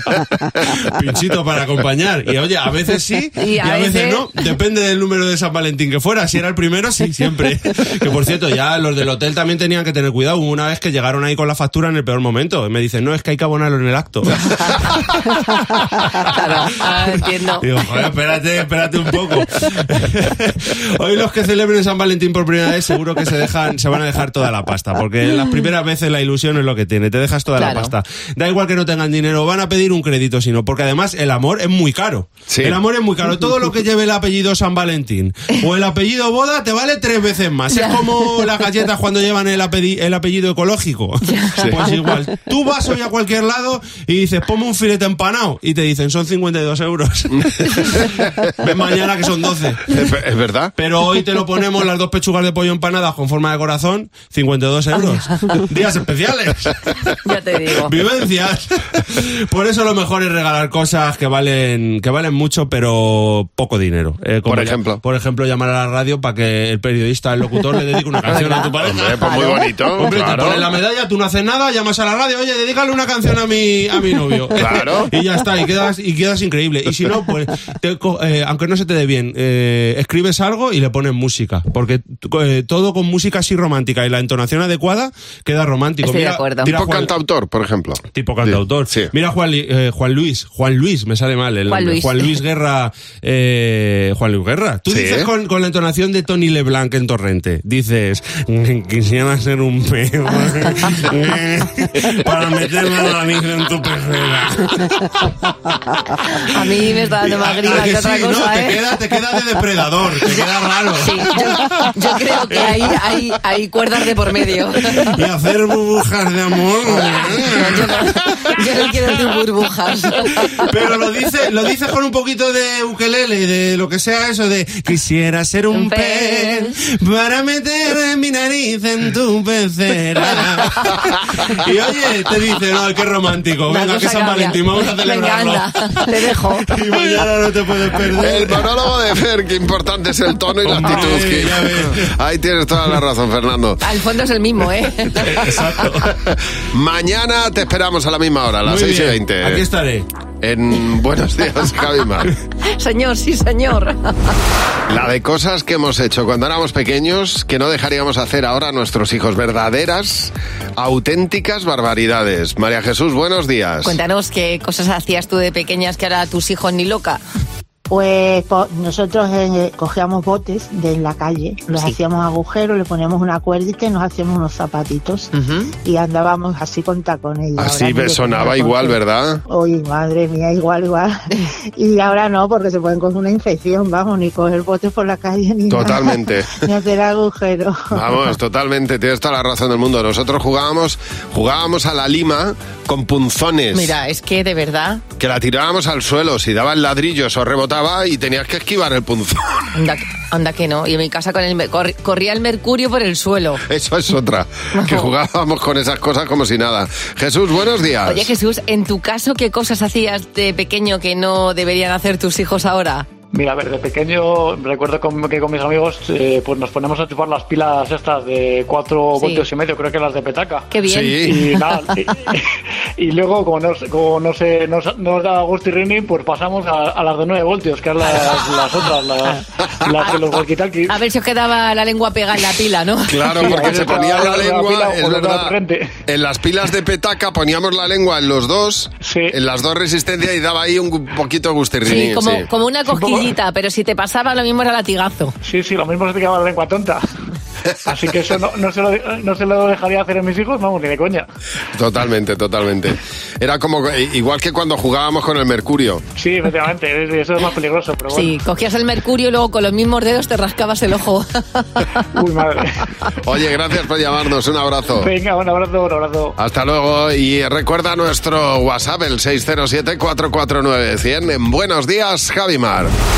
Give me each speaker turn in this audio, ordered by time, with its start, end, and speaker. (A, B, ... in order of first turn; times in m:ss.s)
0:00.2-0:49.9 A
0:03.4-0:04.2 B
0:14.5-0:15.0 B
0:16.3-0:17.7 B
0:27.6-0:27.9 B
0:32.5-0:32.8 C
0:37.7-0:38.5 B
0:41.2-0:42.1 B
0:49.9-0:50.7 C
0:50.8-0:57.1 A
0:57.2-0:57.9 B
0:57.7-1:27.1 A
1:04.5-1:05.0 C
1:08.3-1:08.7 B
1:08.8-1:10.7 C
1:14.6-1:15.1 C
1:26.0-1:26.7 B
1:26.6-1:29.1 C
1:28.1-1:45.5 A
1:31.7-1:32.4 B
1:34.9-1:35.3 C
1:46.2-1:48.8 B
1:47.2-1:51.9 A
1:51.0-1:55.2 B
1:52.5-1:52.8 A
1:54.9-1:59.1 A
1:56.9-2:00.7 B
2:00.4-2:18.7 A
2:05.7-2:06.7 B
2:13.7-2:16.8 B
2:18.2-2:23.8 C
2:20.6-2:22.1 A
2:23.8-2:25.7 B
2:25.1-2:26.2 A
2:26.3-2:29.6 C
2:28.6-2:30.1 A
2:30.4-2:32.3 C
2:32.7-2:34.4 B
2:34.9-2:44.0 C
2:43.8-2:47.2 B
2:47.9-2:55.3 D
2:55.3-2:55.7 B
2:55.8-3:07.8 D
2:57.6-2:59.4 C
3:05.7-3:06.5 C
3:07.9-3:13.9 C
3:13.7-3:15.0 B
3:15.2-3:19.6 C
3:19.7-3:23.6 B
3:23.7-3:28.3 C
3:24.7-3:25.1 B
3:28.0-3:33.1 B
3:33.3-3:40.7 E
3:39.2-3:39.4 B
3:40.7-3:41.6 B
3:40.9-3:41.4 C
3:41.2-3:42.5 E
3:43.0-3:51.0 E
3:50.9-3:54.2 B
3:53.1-3:55.6 C
3:53.4-3:55.9 E
3:56.1-4:02.5 C
3:59.0-3:59.4 E
4:01.8-4:05.4 B
4:02.9-4:03.3 E
4:05.4-4:07.0 E
4:07.9-4:11.3 E
4:11.7-4:16.0 C
4:16.2-4:18.4 E
4:18.1-4:22.0 B
4:22.2-4:22.8 E
4:23.2-4:25.1 C
4:25.0-4:26.4 E
4:26.4-4:32.9 C